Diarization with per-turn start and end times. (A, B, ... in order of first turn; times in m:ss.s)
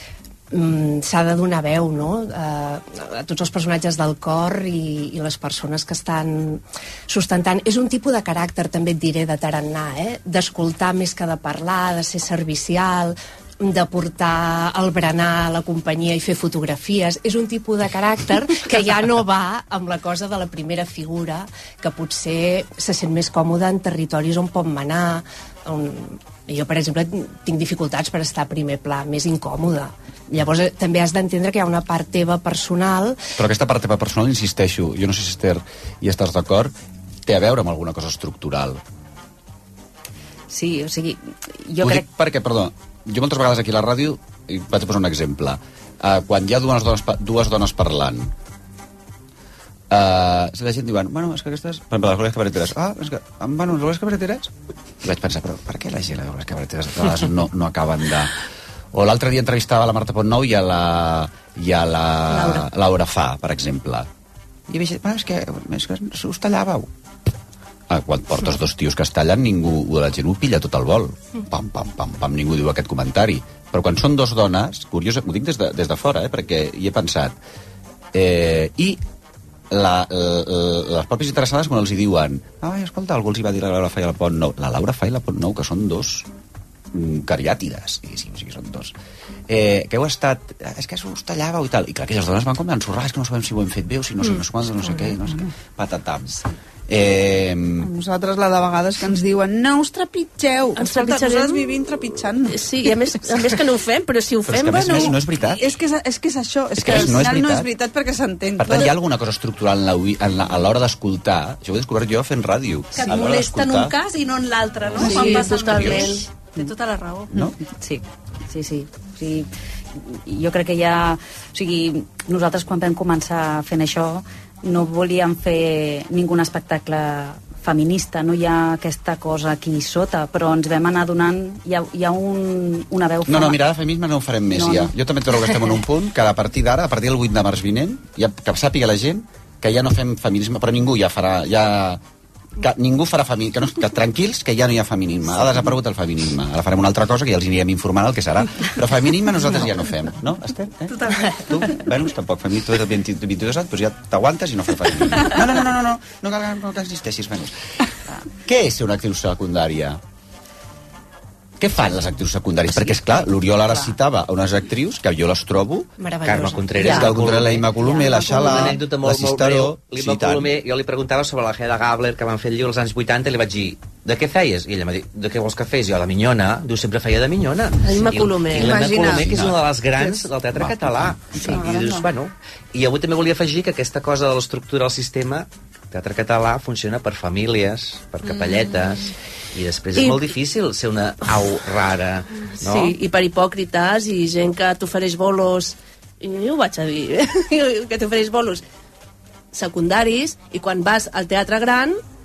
0:00.5-0:33.2 A
0:33.4-0:36.7 B
0:37.2-0:38.8 B
0:40.5-0:42.0 C
0:41.8-0:48.3 B
0:49.9-0:58.3 B
0:58.9-1:04.1 B
1:04.7-1:06.9 B
1:07.9-1:17.4 B
1:18.1-1:19.0 B
1:19.7-1:26.3 B
1:26.9-1:28.9 B
1:29.5-1:37.9 B
1:37.8-1:43.4 D
1:40.8-1:41.6 E
1:42.5-1:45.1 E
1:44.4-1:45.6 B
1:44.7-1:49.0 D
1:46.8-1:47.7 B
1:48.6-1:53.9 B
1:52.9-1:57.3 F
1:54.9-1:56.2 B
1:55.0-1:56.2 E
1:55.2-1:55.4 D
1:57.4-1:59.5 C
2:00.0-2:13.6 C
2:13.3-2:22.0 B
2:14.5-2:15.8 C
2:22.6-2:37.5 B
2:38.4-2:40.0 B
2:41.6-2:45.9 B
2:42.8-2:43.9 C
2:46.0-2:48.6 A
2:46.2-2:47.7 G
2:46.8-2:50.5 B
2:48.2-3:09.0 G
2:57.8-2:58.8 E
2:58.5-3:00.3 D
2:58.8-2:59.6 B
3:00.5-3:01.6 B
3:08.3-3:08.6 D
3:09.5-3:12.9 G
3:12.6-3:18.6 E
3:19.5-3:22.0 E